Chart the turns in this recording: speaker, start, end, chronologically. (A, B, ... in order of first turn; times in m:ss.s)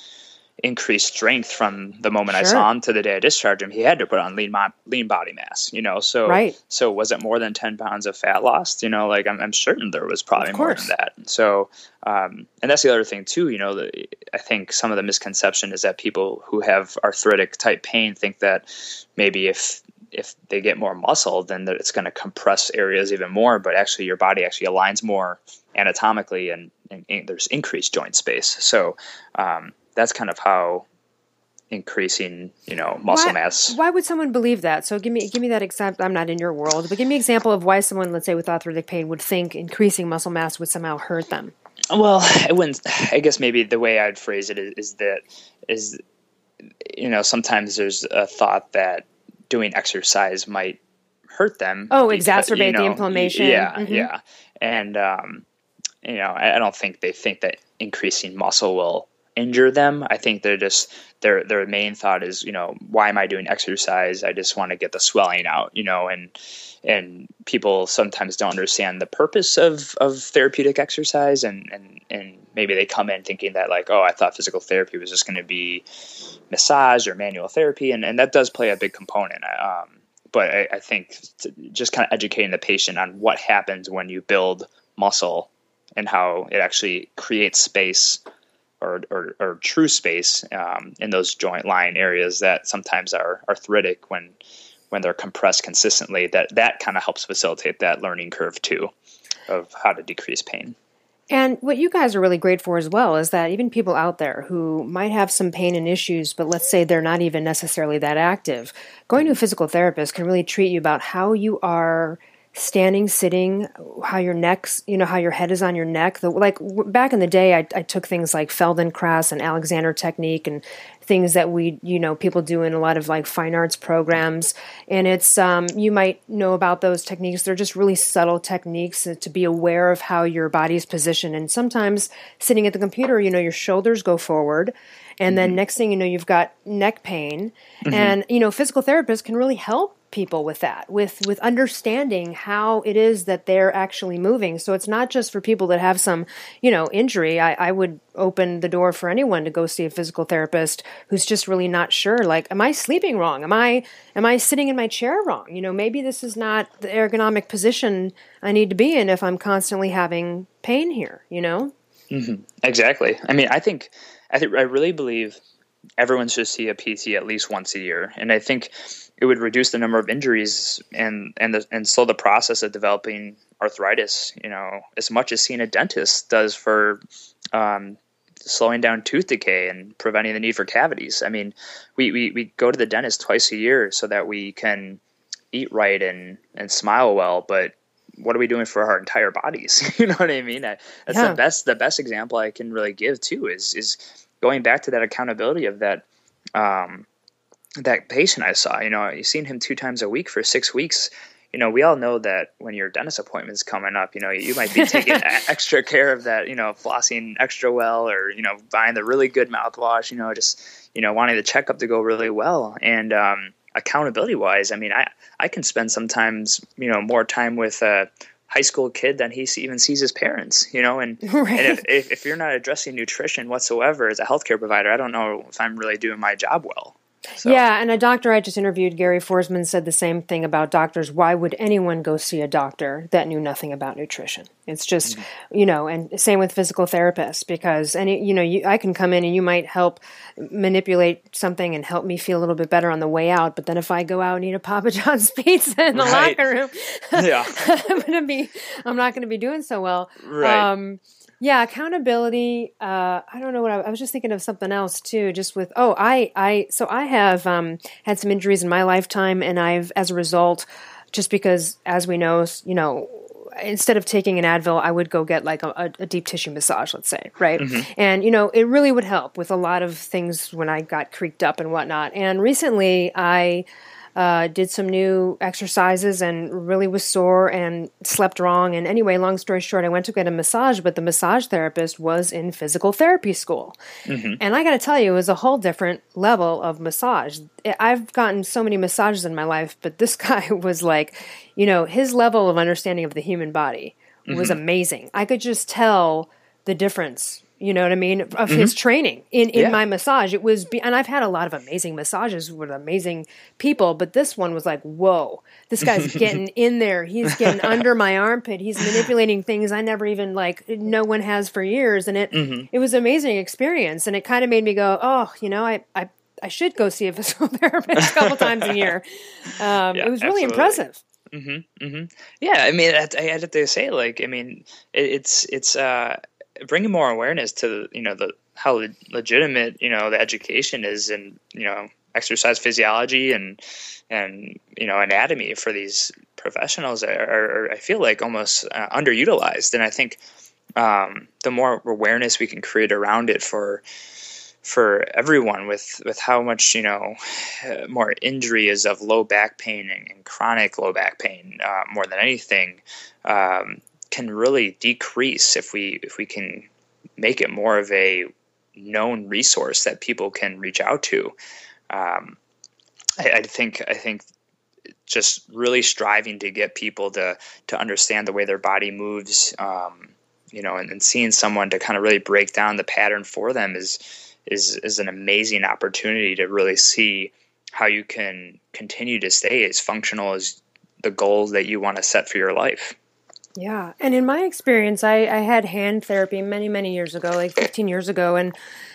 0:00.6-0:30.8 A
0:02.3-0:02.6 B
0:06.2-0:06.6 B
0:10.4-0:10.9 B
0:31.7-0:33.8 A
0:33.1-0:41.5 B
0:41.9-0:46.0 A
0:46.8-0:50.8 A
0:51.3-0:55.4 A
0:51.9-0:54.1 B
0:56.0-1:15.8 A
1:16.5-1:28.2 A
1:28.8-1:34.4 A
1:34.9-1:38.9 A
1:39.5-1:40.8 A
1:41.3-2:41.7 B
2:15.3-2:15.6 A
2:17.8-2:18.2 A
2:42.1-2:45.4 A
2:46.0-2:57.0 A
2:57.5-3:05.0 A
3:05.5-3:16.0 A
3:11.1-3:11.4 B
3:16.6-3:17.1 A
3:17.8-3:47.6 A
3:24.8-3:25.2 B
3:41.2-3:41.8 B
3:47.4-4:33.6 B
4:05.9-4:06.4 A
4:07.1-4:07.7 A
4:10.2-4:10.7 A
4:27.6-4:27.9 A
4:34.2-4:43.8 B
4:44.0-4:44.4 A
4:44.4-5:21.0 B
4:54.3-4:54.6 A
4:59.5-4:59.8 A
5:07.4-5:07.8 A
5:12.3-5:12.7 A
5:18.2-5:18.7 A
5:19.9-5:20.8 A
5:21.3-5:40.2 A
5:40.8-5:43.8 A
5:44.6-6:01.3 A
6:01.9-6:02.4 A
6:03.2-6:04.2 A
6:05.1-6:23.0 A
6:23.6-6:28.6 B